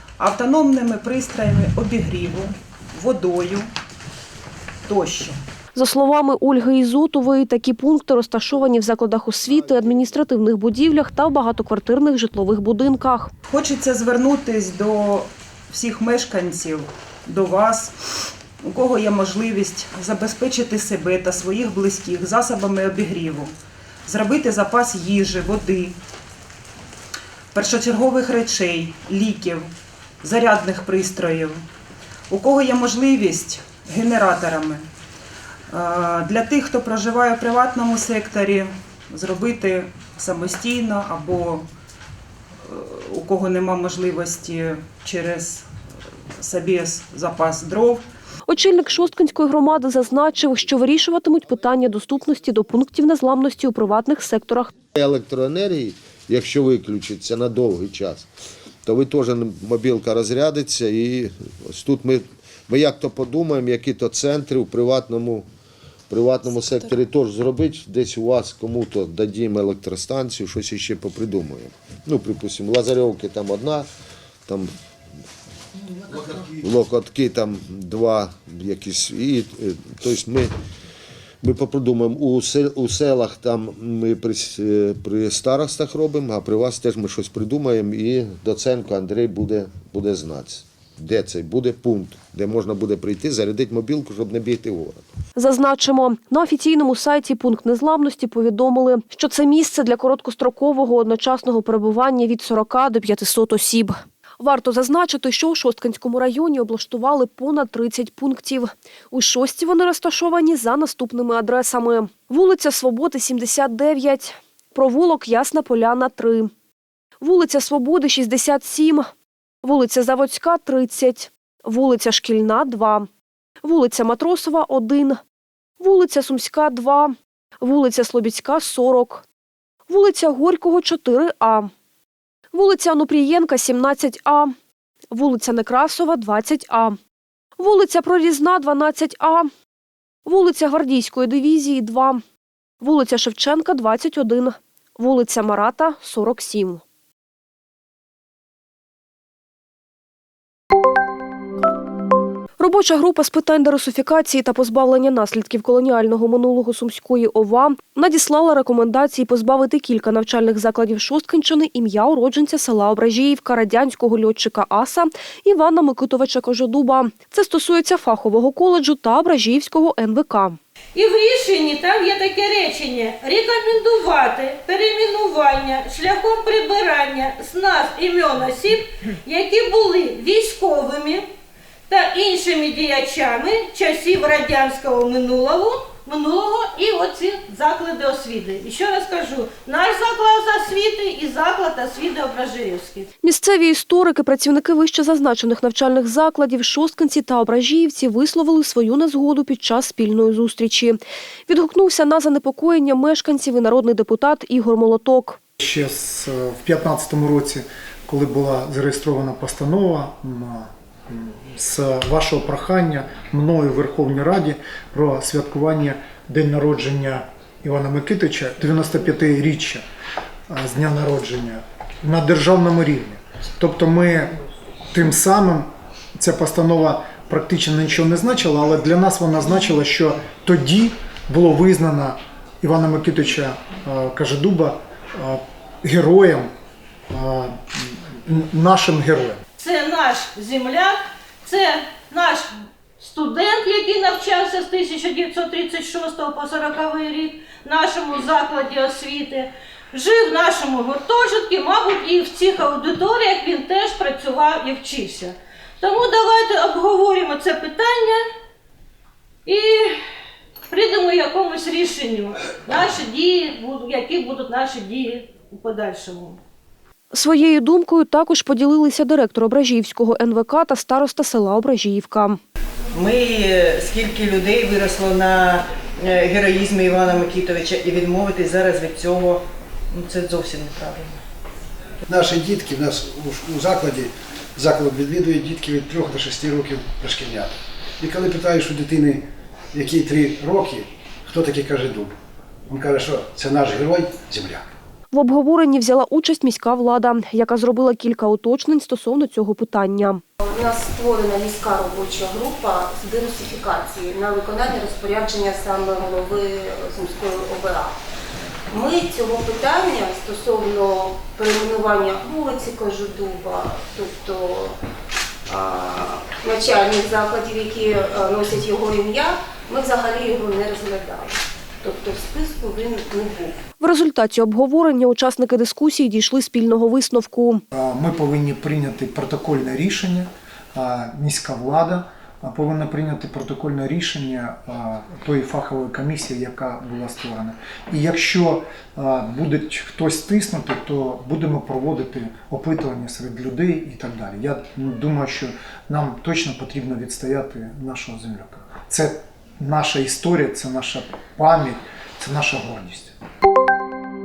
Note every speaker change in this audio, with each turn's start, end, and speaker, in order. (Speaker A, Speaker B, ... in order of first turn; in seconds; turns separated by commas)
Speaker A: 0.2-3.7, Speaker A: 4.9-5.4, Speaker B: 5.8-13.3, Speaker A: 13.5-17.9, Speaker A: 18.6-23.5, Speaker A: 24.1-25.9, Speaker A: 27.5-29.7, Speaker A: 30.2-31.6, Speaker A: 32.3-34.9, Speaker A: 35.7-41.6, Speaker A: 42.7-45.6, Speaker A: 46.4-48.0, Speaker B: 48.5-54.7, Speaker C: 54.9-58.3, Speaker C: 58.8-65.5, Speaker C: 66.1-73.9, Speaker C: 74.5-74.7, Speaker C: 76.3-80.5, Speaker C: 81.4-95.0, Speaker B: 95.4-116.5, Speaker B: 117.2-119.1, Speaker B: 119.6-123.1, Speaker B: 123.6-125.2, Speaker B: 125.8-129.2, Speaker B: 129.9-131.7, Speaker B: 132.5-134.5, Speaker B: 135.1-137.0, Speaker B: 137.6-139.5, Speaker B: 140.2-142.2, Speaker B: 142.8-146.8, Speaker B: 152.6-170.6, Speaker D: 170.9-181.2, Speaker D: 181.9-193.1, Speaker B: 193.2-205.4, Speaker E: 205.6-219.8, Speaker E: 220.5-224.4, Speaker E: 224.9-236.5, Speaker E: 237.1-239.4, Speaker D: 239.6-242.5, Speaker D: 243.0-258.2, Speaker D: 259.5-259.9, Speaker D: 260.7-266.4, Speaker B: 267.1-272.4, Speaker F: 273.1-275.6, Speaker F: 276.1-279.4, Speaker F: 279.9-281.1, Speaker G: 282.1-292.1, Speaker G: 292.7-294.7, Speaker B: 295.1-300.2, Speaker H: 300.4-308.0, Speaker H: 308.7-314.8, Speaker H: 315.5-323.6, Speaker B: 323.8-327.6, Speaker E: 327.7-353.1